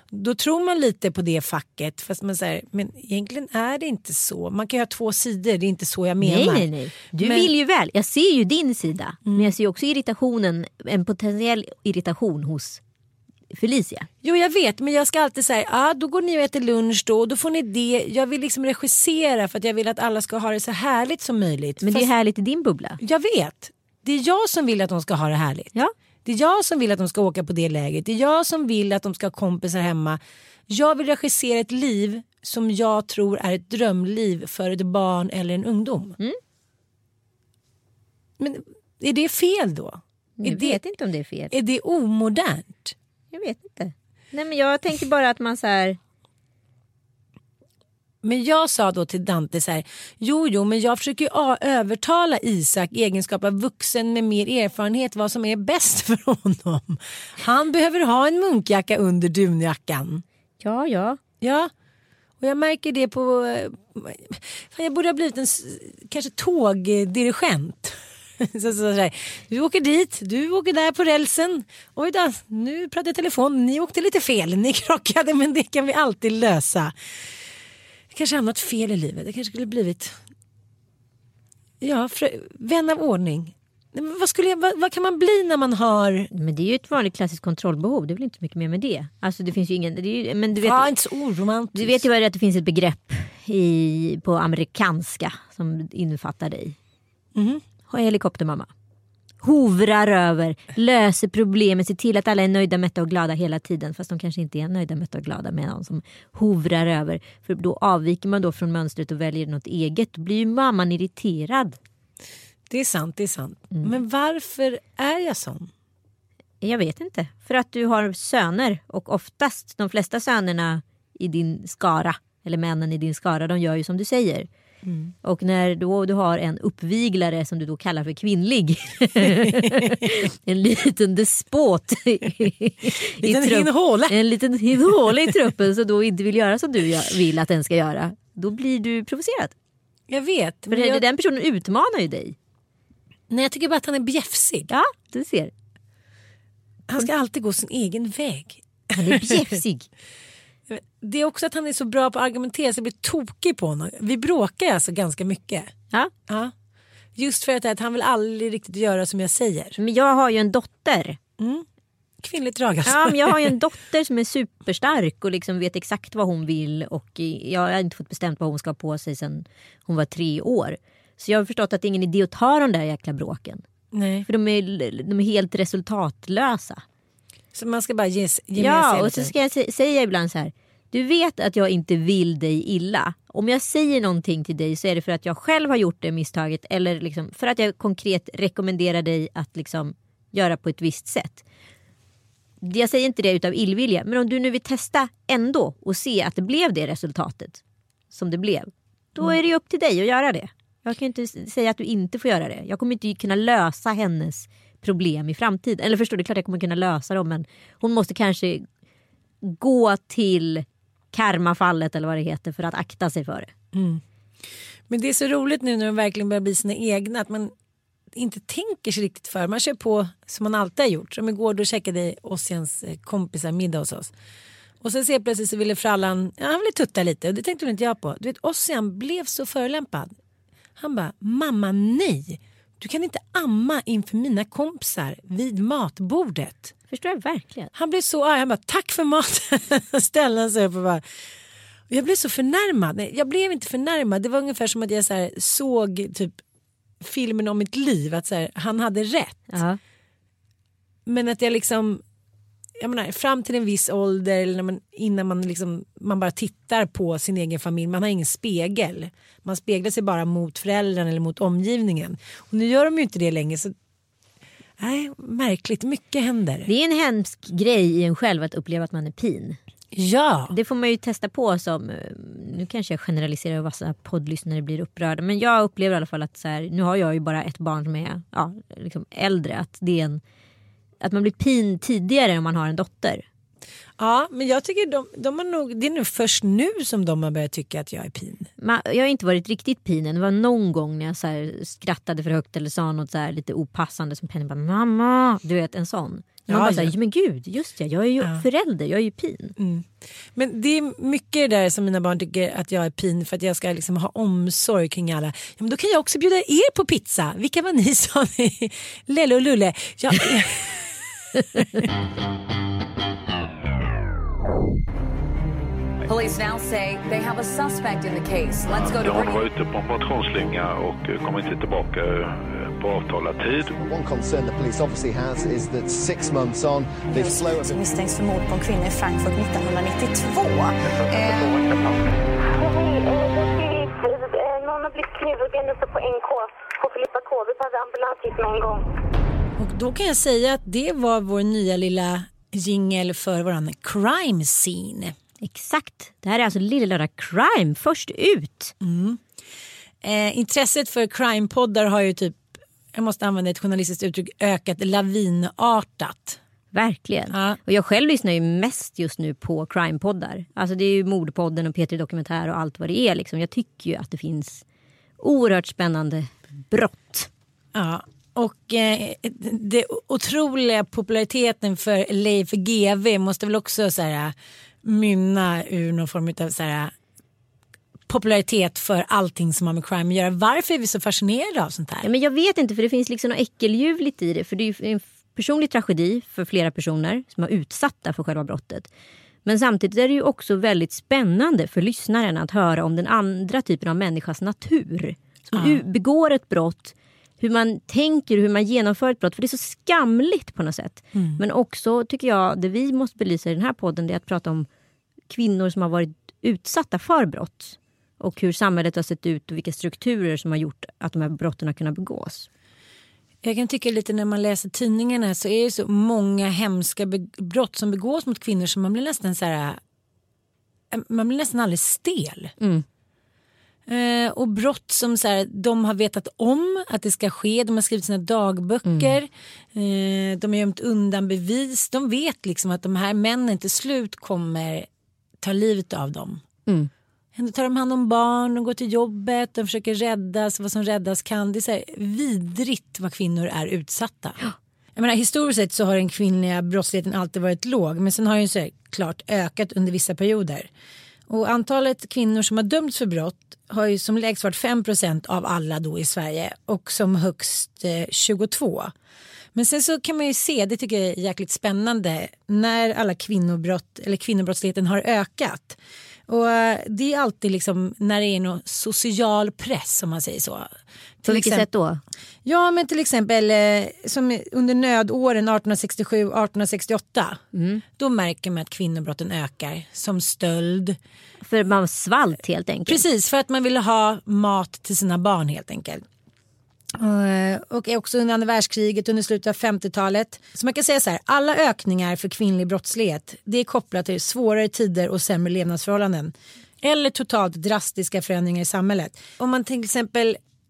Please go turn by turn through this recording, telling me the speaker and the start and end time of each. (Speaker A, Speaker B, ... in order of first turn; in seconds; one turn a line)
Speaker A: 0.1-7.5
Speaker B: 6.2-12.8
Speaker A: 9.2-9.5
Speaker B: 13.5-14.1
Speaker A: 14.2-22.1
Speaker B: 21.8-23.0
Speaker A: 23.0-36.2
Speaker A: 38.4-40.8
Speaker B: 40.4-41.5
Speaker A: 41.5-42.9
Speaker B: 43.3-46.0
Speaker A: 48.2-60.2
Speaker B: 60.6-61.2
Speaker A: 61.4-61.7
Speaker A: 62.4-76.9
Speaker A: 78.1-80.2
Speaker A: 81.8-86.3
Speaker B: 86.3-90.9
Speaker A: 90.5-92.0
Speaker B: 91.7-96.7
Speaker A: 97.3-97.6
Speaker B: 97.9-98.7
Speaker B: 99.4-111.8
Speaker A: 112.7-115.7
Speaker B: 116.6-124.5
Speaker A: 124.8-125.1
Speaker B: 125.2-139.5
Speaker A: 129.2-130.0
Speaker A: 133.2-134.2
Speaker A: 134.8-135.3
Speaker A: 140.1-141.0
Speaker B: 140.7-142.3
Speaker A: 143.3-144.7
Speaker B: 144.7-145.5
Speaker A: 146.9-149.6
Speaker B: 148.9-149.9
Speaker A: 150.7-155.7
Speaker A: 156.3-156.5
Speaker A: 157.2-159.8
Speaker B: 159.8-161.2
Speaker A: 161.4-161.7
Speaker A: 162.2-163.5
Speaker B: 162.8-173.6
Speaker A: 173.9-174.3
Speaker B: 174.3-176.8
Speaker A: 177.5-179.3
Speaker B: 178.6-191.4
Speaker B: 192.6-197.6
Speaker B: 198.1-208.6
Speaker B: 209.4-213.5
Speaker A: 213.7-214.0
Speaker A: 214.9-217.5
Speaker A: 218.1-224.1
Speaker A: 224.8-230.2
Speaker A: 230.8-236.7
Speaker B: 236.9-237.7
Speaker A: 237.7-241.0
Speaker A: 241.9-246.4
Speaker A: 247.0-249.6
Speaker B: 249.5-249.8
Speaker A: 251.1-252.0
Speaker A: 252.8-263.7
Speaker A: 264.8-266.7
Speaker B: 266.7-269.6
Speaker A: 269.9-270.5
Speaker B: 270.5-280.2
Speaker B: 281.0-283.2
Speaker A: 284.0-288.5
Speaker B: 288.6-299.6
Speaker A: 296.5-296.9
Speaker A: 299.6-311.0
Speaker A: 311.5-311.9
Speaker C: 316.1-319.4
Speaker D: 318.7-323.8
Speaker E: 323.8-327.8
Speaker F: 327.1-331.4
Speaker D: 331.1-332.0
Speaker G: 332.5-338.8
Speaker A: 339.6-345.1
Speaker B: 345.4-348.7
Speaker A: 348.8-349.2
Speaker A: 350.0-356.4
Speaker B: 356.7-364.6
Speaker A: 357.3-357.6
Speaker B: 365.2-367.3
Speaker A: 367.7-376.9
Speaker A: 378.1-382.1
Speaker B: 382.0-388.9
Speaker B: 389.4-404.7
Speaker A: 395.5-395.8
Speaker A: 401.1-401.4
Speaker B: 405.3-412.5
Speaker A: 413.4-419.8
Speaker A: 420.9-422.5
Speaker B: 422.6-422.8
Speaker A: 423.9-434.9
Speaker B: 428.8-429.1
Speaker A: 435.4-436.4
Speaker A: 437.3-444.4
Speaker A: 444.9-450.7
Speaker A: 451.3-458.9
Speaker A: 459.5-470.7
Speaker A: 471.2-471.7
Speaker B: 471.3-472.0
Speaker A: 472.4-477.4
Speaker B: 477.5-477.8
Speaker A: 477.9-481.0
Speaker B: 481.4-483.0
Speaker A: 482.9-486.0
Speaker A: 486.9-500.4